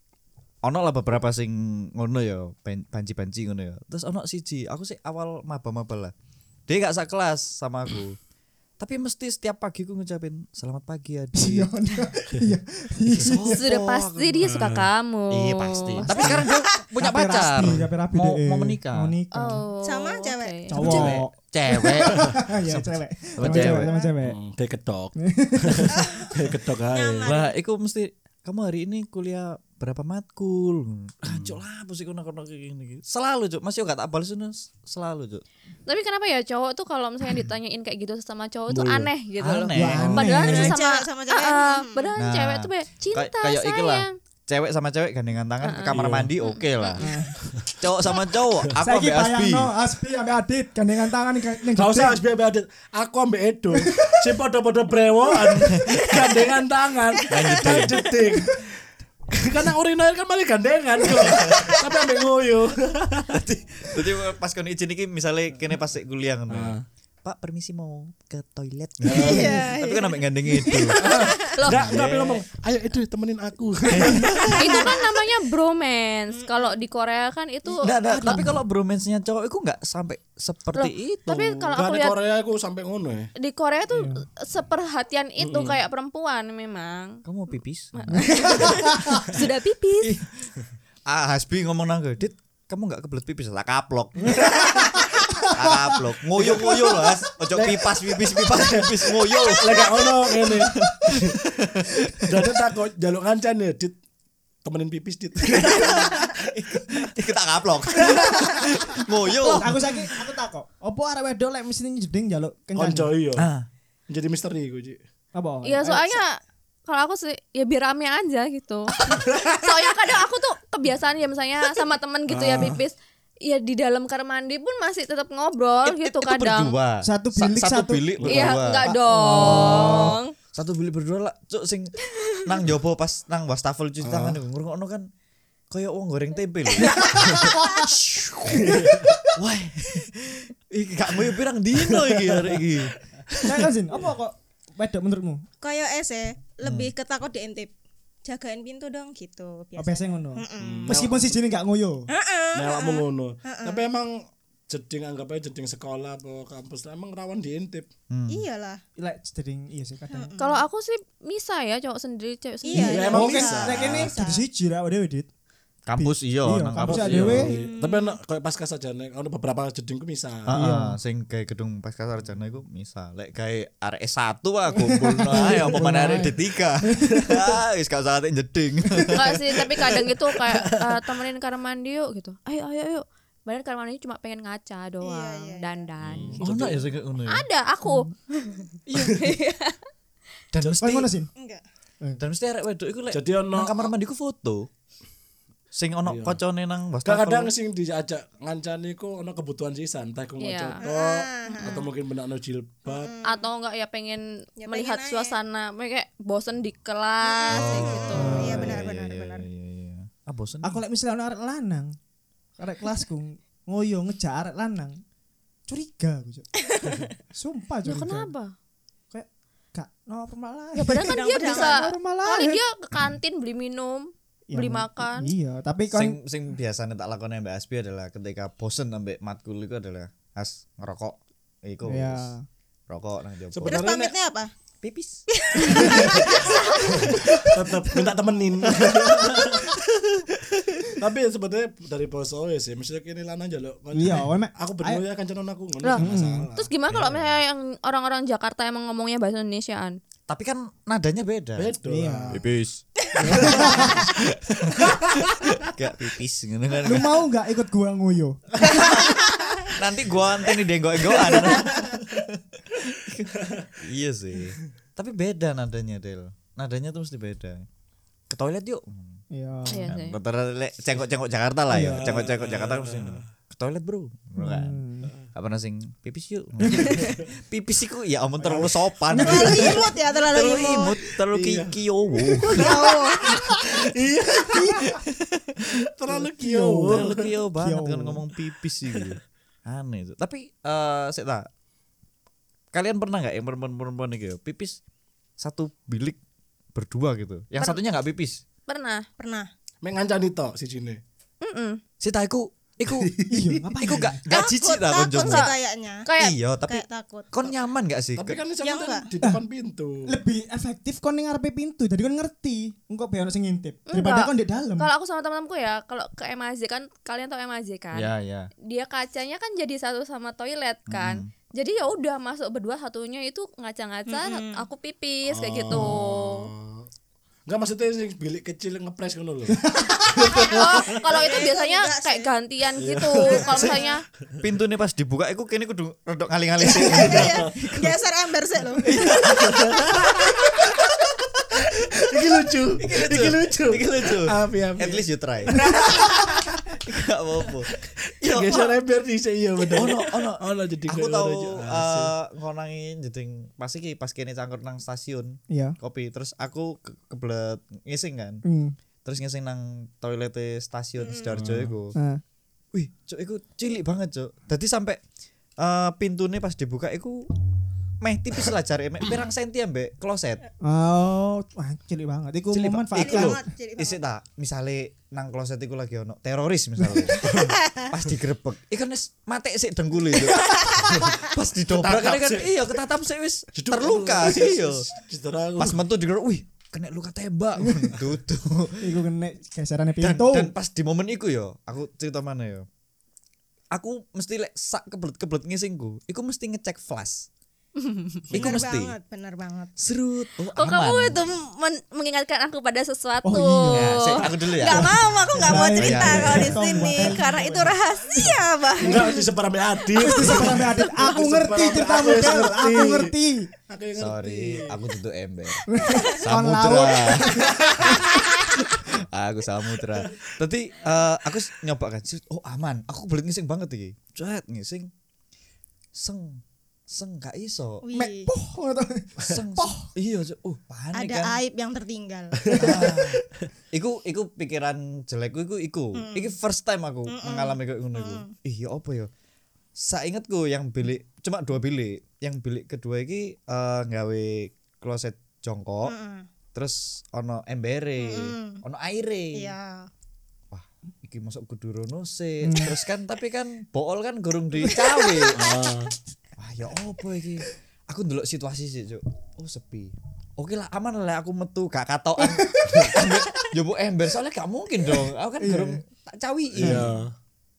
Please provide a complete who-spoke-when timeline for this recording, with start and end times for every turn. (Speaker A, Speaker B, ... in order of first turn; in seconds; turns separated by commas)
Speaker A: 0.6-6.1, Speaker A: 6.7-8.2, Speaker A: 8.8-11.7, Speaker B: 11.3-13.6, Speaker A: 13.1-14.7, Speaker C: 13.4-16.1, Speaker D: 14.4-14.8, Speaker A: 15.3-19.1, Speaker B: 16.1-19.6, Speaker C: 19.3-21.1, Speaker E: 19.8-20.9, Speaker B: 20.7-24.4, Speaker A: 20.8-23.9, Speaker D: 22.0-22.4, Speaker D: 23.4-27.4, Speaker E: 23.7-24.1, Speaker B: 25.2-26.3, Speaker E: 25.9-26.3, Speaker E: 26.9-27.5, Speaker A: 27.2-35.4, Speaker D: 31.2-31.6, Speaker C: 35.9-44.1, Speaker D: 38.7-39.1, Speaker A: 39.4-40.3, Speaker B: 39.7-40.8, Speaker D: 40.0-40.3, Speaker E: 40.4-42.1, Speaker A: 42.2-47.0, Speaker C: 45.6-47.1, Speaker D: 45.9-46.3, Speaker B: 47.0-47.3, Speaker D: 47.5-47.7, Speaker A: 47.7-49.7, Speaker B: 48.8-52.2, Speaker D: 51.7-58.7, Speaker B: 53.7-54.3, Speaker A: 57.3-58.0, Speaker E: 57.3-58.1, Speaker B: 58.2-58.6, Speaker D: 59.3-63.4, Speaker A: 61.1-61.8, Speaker A: 63.3-72.4, Speaker D: 66.5-66.8, Speaker D: 69.0-69.5, Speaker E: 69.1-71.6, Speaker B: 69.1-69.6, Speaker D: 70.9-74.9, Speaker C: 71.4-71.9, Speaker A: 73.9-74.8, Speaker C: 74.5-78.4, Speaker E: 74.7-75.0, Speaker E: 76.3-76.7, Speaker A: 77.8-81.6, Speaker B: 78.1-78.5, Speaker C: 80.7-82.2, Speaker D: 81.7-83.3, Speaker C: 83.4-87.2, Speaker D: 85.4-85.8, Speaker A: 87.2-88.9, Speaker C: 87.9-90.2, Speaker B: 88.1-89.3, Speaker A: 90.0-90.5, Speaker A: 91.1-94.6, Speaker D: 94.3-95.0, Speaker B: 94.3-96.0, Speaker A: 95.5-102.6, Speaker D: 96.3-103.9, Speaker D: 104.6-107.0, Speaker A: 105.5-109.9, Speaker D: 108.0-108.5, Speaker B: 109.3-113.1, Speaker D: 112.7-113.5, Speaker A: 113.3-113.7, Speaker D: 114.1-115.0, Speaker B: 115.3-116.2, Speaker C: 115.6-126.8, Speaker D: 119.0-119.8, Speaker D: 122.3-122.8, Speaker A: 125.8-135.1, Speaker B: 127.0-128.2, Speaker C: 128.2-130.3, Speaker B: 128.8-130.2, Speaker D: 134.0-134.4, Speaker A: 135.7-142.9, Speaker B: 137.2-137.8, Speaker D: 138.5-139.1, Speaker B: 138.7-139.1, Speaker D: 141.9-142.6, Speaker B: 143.4-145.4, Speaker E: 145.6-147.7, Speaker A: 146.6-146.9, Speaker E: 148.2-150.9, Speaker B: 149.8-152.1, Speaker D: 150.6-151.3, Speaker E: 152.1-153.8, Speaker D: 152.5-157.9, Speaker A: 158.1-158.4, Speaker E: 158.3-158.8, Speaker B: 159.0-160.3, Speaker E: 160.1-160.6, Speaker C: 160.4-163.2, Speaker E: 162.6-164.4, Speaker D: 162.7-164.1, Speaker B: 163.1-165.3, Speaker A: 165.8-167.6, Speaker B: 165.9-167.5, Speaker D: 166.8-170.6, Speaker E: 167.4-168.2, Speaker A: 170.5-179.6, Speaker B: 170.5-171.0, Speaker B: 174.8-177.4, Speaker C: 179.1-186.4, Speaker D: 180.6-180.9, Speaker E: 185.0-185.7, Speaker D: 186.1-186.9, Speaker A: 186.1-187.4, Speaker C: 187.2-189.8, Speaker D: 188.9-189.3, Speaker A: 190.5-191.1, Speaker B: 190.8-191.3, Speaker E: 191.3-191.6, Speaker A: 192.2-194.7, Speaker D: 193.1-193.9, Speaker A: 195.7-197.5, Speaker D: 196.1-196.4, Speaker D: 197.0-203.2, Speaker C: 200.4-200.8, Speaker E: 200.8-201.9, Speaker E: 202.8-203.5, Speaker C: 203.2-208.5, Speaker E: 204.6-205.3, Speaker E: 207.2-209.5, Speaker A: 207.5-210.8, Speaker B: 208.2-208.8, Speaker B: 210.6-211.9, Speaker B: 212.6-215.0, Speaker B: 215.7-216.5, Speaker E: 216.8-217.0, Speaker B: 217.3-218.3, Speaker C: 217.8-218.5, Speaker B: 219.1-222.6, Speaker C: 220.7-225.3, Speaker E: 221.0-221.8, Speaker B: 224.5-226.2, Speaker A: 225.9-232.3, Speaker B: 231.8-232.4, Speaker A: 232.9-233.8, Speaker D: 233.5-234.1, Speaker E: 233.6-234.5, Speaker A: 234.8-235.2, Speaker E: 235.4-237.4, Speaker D: 235.7-236.4, Speaker D: 237.0-239.8, Speaker A: 238.7-240.0, Speaker D: 240.9-246.7, Speaker B: 243.9-245.0, Speaker C: 245.8-250.0, Speaker B: 245.9-246.5, Speaker A: 246.9-247.3, Speaker A: 250.3-251.7, Speaker D: 251.6-252.4, Speaker B: 251.8-252.4, Speaker A: 252.3-257.2, Speaker D: 253.2-254.0, Speaker B: 253.3-254.0, Speaker D: 254.8-255.3, Speaker B: 256.8-259.0, Speaker A: 258.7-259.1, Speaker A: 259.7-267.6, Speaker D: 261.1-261.9, Speaker D: 263.3-263.7, Speaker A: 268.3-269.2, Speaker B: 269.3-269.9, Speaker C: 269.7-270.2, Speaker A: 269.9-274.8, Speaker B: 271.7-272.0, Speaker D: 271.9-273.2, Speaker B: 274.4-275.1, Speaker A: 275.3-282.8, Speaker D: 276.8-277.3, Speaker B: 279.1-279.9, Speaker E: 279.2-280.9, Speaker D: 281.1-285.0, Speaker B: 282.5-283.7, Speaker E: 282.6-283.1, Speaker B: 284.5-284.9, Speaker A: 284.7-285.6, Speaker D: 285.7-287.3, Speaker B: 286.1-288.2, Speaker A: 286.9-291.5, Speaker A: 292.7-294.8, Speaker A: 295.4-296.2, Speaker A: 296.7-298.4, Speaker C: 298.7-299.1, Speaker E: 299.2-299.5, Speaker D: 299.8-301.0, Speaker C: 301.4-301.8, Speaker A: 302.0-303.1, Speaker D: 302.9-303.9, Speaker B: 303.3-304.2, Speaker A: 303.8-305.5, Speaker E: 304.3-306.1, Speaker C: 305.1-305.5, Speaker C: 306.0-306.3, Speaker A: 306.2-308.4, Speaker E: 306.6-307.5, Speaker D: 308.2-310.1, Speaker E: 308.6-309.1, Speaker B: 310.1-314.9, Speaker C: 313.9-318.1, Speaker A: 317.9-318.5, Speaker C: 318.6-326.5, Speaker A: 320.9-321.3, Speaker E: 324.1-324.6, Speaker D: 325.3-326.9, Speaker D: 327.4-331.0, Speaker B: 329.7-330.1, Speaker C: 330.3-334.0, Speaker E: 330.3-332.3, Speaker D: 332.8-334.4, Speaker E: 333.2-334.0, Speaker A: 334.4-337.9, Speaker D: 336.6-337.6, Speaker E: 336.7-339.2, Speaker A: 338.8-341.6, Speaker D: 339.2-340.8, Speaker D: 341.6-346.7, Speaker A: 342.8-348.7, Speaker D: 347.7-352.1, Speaker A: 349.7-358.4, Speaker B: 355.5-355.8, Speaker B: 358.4-358.7, Speaker A: 359.0-361.9, Speaker D: 361.3-361.7, Speaker B: 361.9-362.2, Speaker A: 362.7-365.0, Speaker A: 365.6-367.3, Speaker A: 368.0-370.4, Speaker B: 370.6-373.4, Speaker D: 372.5-372.9, Speaker A: 372.9-384.8, Speaker E: 373.0-374.0, Speaker D: 377.2-377.6, Speaker E: 377.4-377.9, Speaker D: 381.7-382.6, Speaker D: 383.5-385.8, Speaker A: 385.6-388.9, Speaker B: 387.6-387.9, Speaker B: 388.8-390.5, Speaker A: 390.0-392.6, Speaker A: 393.7-397.3, Speaker E: 397.8-399.7, Speaker D: 398.3-398.6, Speaker A: 398.3-398.9, Speaker A: 399.8-401.2, Speaker C: 400.6-404.9, Speaker B: 403.2-404.1, Speaker A: 403.7-404.9, Speaker E: 404.6-409.3, Speaker B: 404.7-407.7, Speaker A: 405.5-407.1, Speaker D: 408.8-413.2, Speaker B: 409.9-413.4, Speaker D: 413.7-414.8, Speaker A: 413.9-418.0, Speaker B: 415.7-418.1, Speaker D: 417.6-418.1, Speaker A: 418.8-424.9, Speaker A: 425.9-427.8, Speaker E: 427.8-428.3, Speaker B: 427.9-429.9, Speaker A: 429.2-431.4, Speaker E: 430.9-433.0, Speaker D: 432.4-433.2, Speaker A: 432.5-439.1, Speaker E: 435.9-436.3, Speaker E: 437.1-438.3, Speaker A: 439.8-445.9, Speaker E: 445.8-446.3, Speaker A: 446.5-449.6, Speaker E: 448.0-448.6, Speaker E: 449.3-449.9, Speaker A: 450.5-455.6, Speaker B: 452.4-452.8, Speaker E: 454.7-455.3, Speaker D: 455.3-455.9, Speaker A: 456.4-467.0, Speaker B: 462.2-462.9, Speaker B: 465.4-465.8, Speaker D: 466.6-467.1